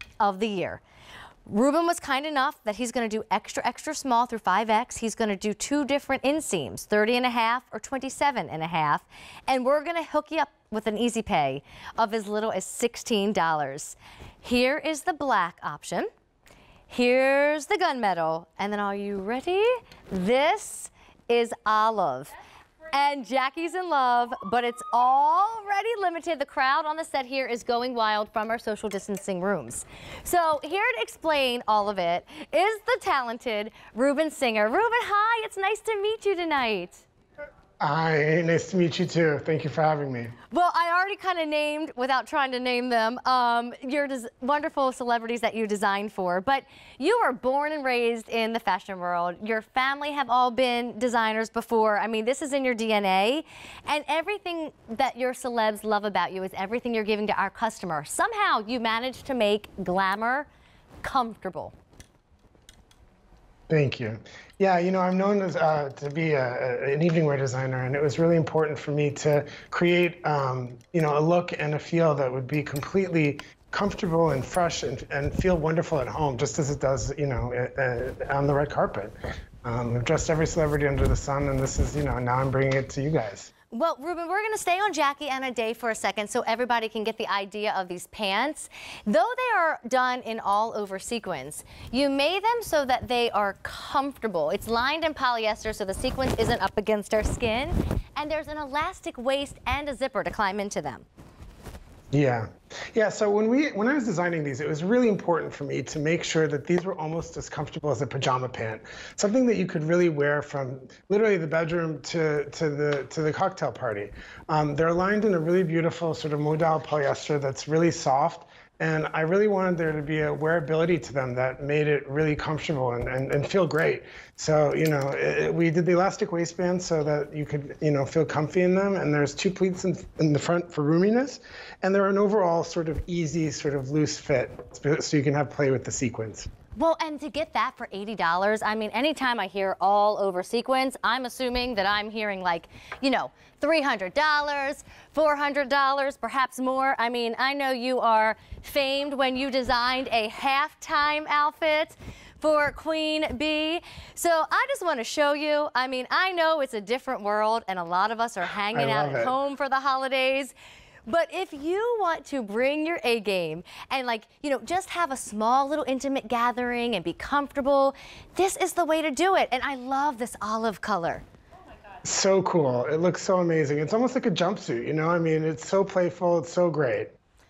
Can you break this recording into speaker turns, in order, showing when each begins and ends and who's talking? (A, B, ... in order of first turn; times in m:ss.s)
0:00.2-0:00.8 A
0:01.4-0:16.1 A
0:16.9-0:22.3 A
0:22.9-0:37.0 A
0:37.8-0:40.3 B
0:40.5-1:00.5 A
1:01.0-1:01.7 A
1:03.7-1:23.5 B
1:23.7-1:41.0 A
1:42.1-2:16.5 B
2:16.8-2:40.5 A
2:38.7-2:39.3 B
2:41.1-2:51.2 A
2:52.0-2:57.1 B